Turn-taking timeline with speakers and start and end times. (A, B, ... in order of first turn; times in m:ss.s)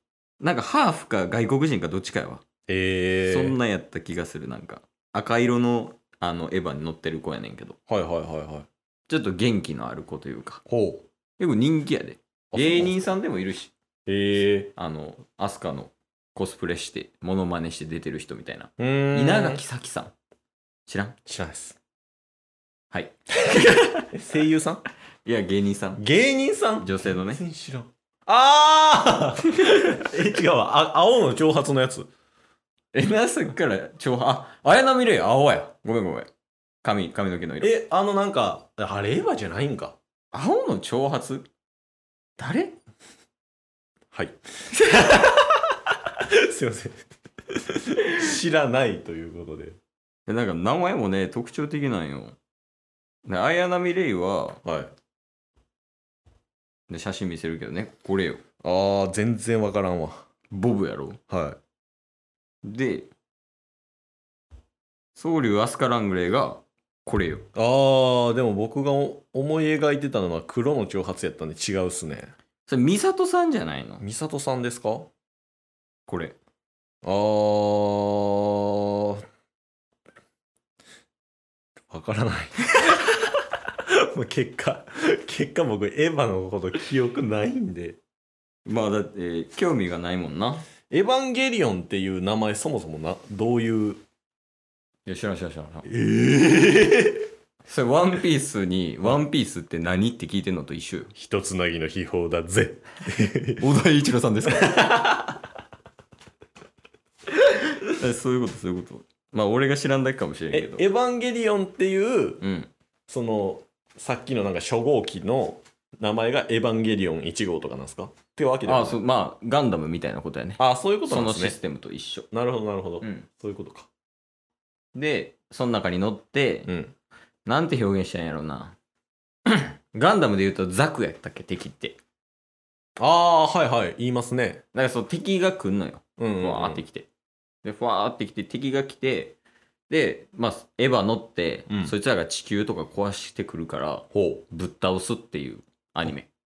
0:00.4-0:02.4 A
0:02.7-0:03.6 B
0:03.3-0:07.8 A
0:07.9-0:08.7 B
0:09.1-0:10.6 A
0:10.7-0:11.1 B
0:11.4-0:13.7 A
0:12.5-0:13.0 B
0:14.1-0:14.7 B
0:14.8-0:20.1 A
0:18.8-0:19.6 B
0:20.9-0:21.2 A
0:21.3-0:21.8 B
0:22.9-0:24.1 A
0:24.1-0:24.8 B
0:25.2-0:26.0 A
0:26.0-0:32.1 B
0:26.8-0:27.4 A
0:29.6-0:29.9 A
0:32.9-0:36.3 A
0:36.8-0:37.7 A
0:37.6-0:40.0 B
0:40.3-0:41.5 A
0:42.4-0:42.8 A
0:44.1-0:49.8 B
0:50.3-0:52.4 A
0:53.3-0:54.6 A
0:54.6-0:54.9 B
0:56.9-0:58.4 A
0:58.6-1:00.2 B
1:00.5-1:01.2 A
1:01.3-1:01.6 B
1:02.6-1:03.1 A
1:05.2-1:07.5 A
1:07.6-1:12.3 B
1:12.7-1:14.0 A
1:14.0-1:15.1 B
1:16.1-1:16.4 A
1:17.0-1:19.2 B
1:21.9-1:23.1 B
1:23.8-1:28.0 B
1:28.7-1:30.7 A
1:30.9-1:34.0 B
1:35.1-1:35.9 A
1:35.9-1:37.3 B
1:37.7-1:41.1 A
1:41.2-1:43.7 B
1:43.6-1:44.9 A
1:44.5-1:45.4 B
1:47.4-1:50.8 A
1:50.5-1:52.4 B
1:52.4-1:52.7 A
1:53.1-1:59.0 B
1:58.7-2:02.3 A
2:00.6-2:01.6 B
2:02.3-2:03.9 B
2:05.0-2:06.7 A
2:06.7-2:06.9 B
2:07.5-2:08.8 A
2:09.5-2:12.0 A
2:13.0-2:14.6 B
2:14.8-2:17.1 A
2:16.2-2:16.8 B
2:17.6-2:19.4 A
2:19.9-2:26.3 A
2:21.7-2:22.0 B
2:24.1-2:24.4 B